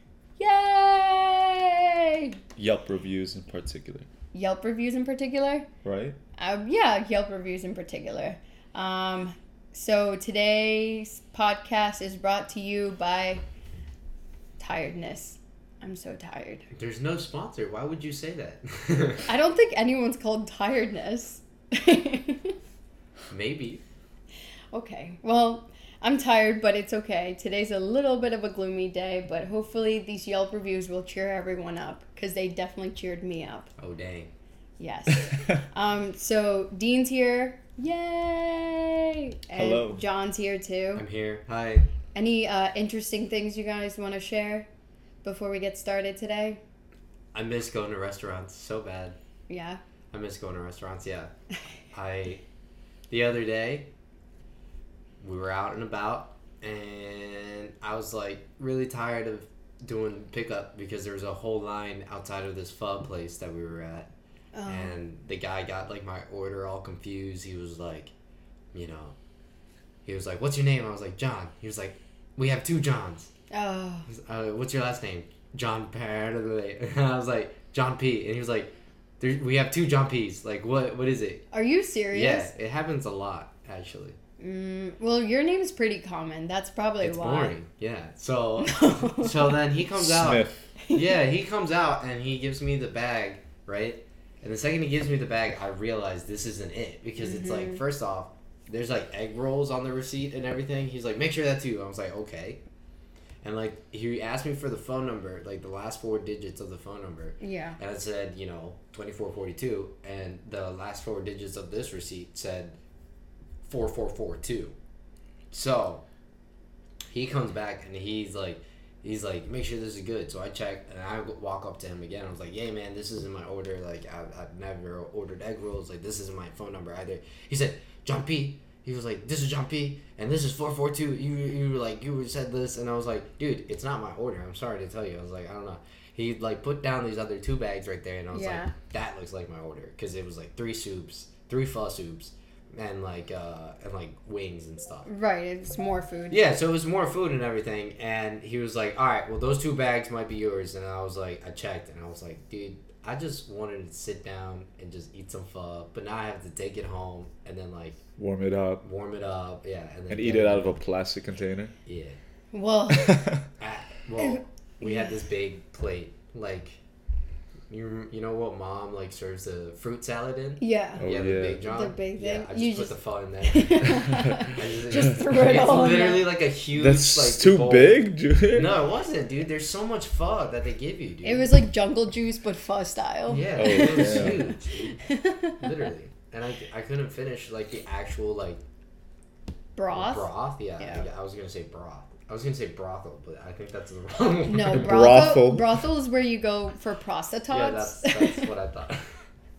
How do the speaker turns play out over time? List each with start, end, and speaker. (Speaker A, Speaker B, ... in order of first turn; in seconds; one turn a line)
Speaker A: 0.4-2.4
Speaker B: 2.6-4.1
Speaker A: 4.3-5.7
Speaker B: 5.8-6.2
Speaker A: 6.4-13.4
Speaker A: 14.6-16.6
Speaker C: 16.7-19.3
Speaker A: 19.3-22.6
Speaker C: 23.3-23.8
Speaker A: 24.7-33.7
Speaker C: 33.8-34.3
Speaker A: 34.8-41.0
Speaker B: 39.5-40.0
Speaker C: 41.0-41.9
Speaker A: 42.1-44.7
Speaker A: 45.2-46.6
Speaker C: 47.3-49.2
Speaker A: 49.5-49.8
Speaker C: 50.1-51.3
Speaker C: 51.9-52.4
Speaker C: 53.1-53.9
Speaker C: 55.2-64.1
Speaker A: 64.5-65.0
Speaker C: 64.7-68.1
Speaker C: 68.7-69.2
Speaker C: 70.0-73.3
Speaker A: 73.5-74.1
Speaker C: 74.1-81.5
Speaker A: 81.5-82.5
Speaker C: 82.1-84.2
Speaker A: 84.4-87.5
Speaker C: 87.0-102.6
Speaker A: 88.7-89.3
Speaker B: 90.0-90.7
Speaker A: 90.8-91.1
Speaker A: 97.2-97.8
Speaker C: 103.4-112.8
Speaker A: 107.4-107.8
Speaker C: 113.6-114.7
Speaker C: 115.5-116.0
Speaker C: 117.1-145.1
Speaker A: 138.3-138.7
Speaker A: 145.1-146.4
Speaker C: 146.3-158.0
Speaker B: 158.2-158.8
Speaker C: 158.8-160.8
Speaker B: 160.1-161.7
Speaker C: 161.8-162.2
Speaker A: 162.5-163.3
Speaker B: 162.9-163.4
Speaker C: 163.6-166.8
Speaker A: 164.2-165.1
Speaker C: 167.7-178.0
Speaker A: 170.6-171.1
Speaker B: 171.0-171.6
Speaker A: 171.6-176.3
Speaker B: 176.7-178.8
Speaker C: 178.5-181.5
Speaker A: 181.2-184.5
Speaker C: 183.3-185.0
Speaker B: 183.5-184.5
Speaker A: 185.0-185.6
Speaker C: 185.6-188.6
Speaker A: 189.8-191.1
Speaker C: 189.9-195.2
Speaker A: 194.5-198.5
Speaker B: 194.7-195.8
Speaker C: 197.5-199.2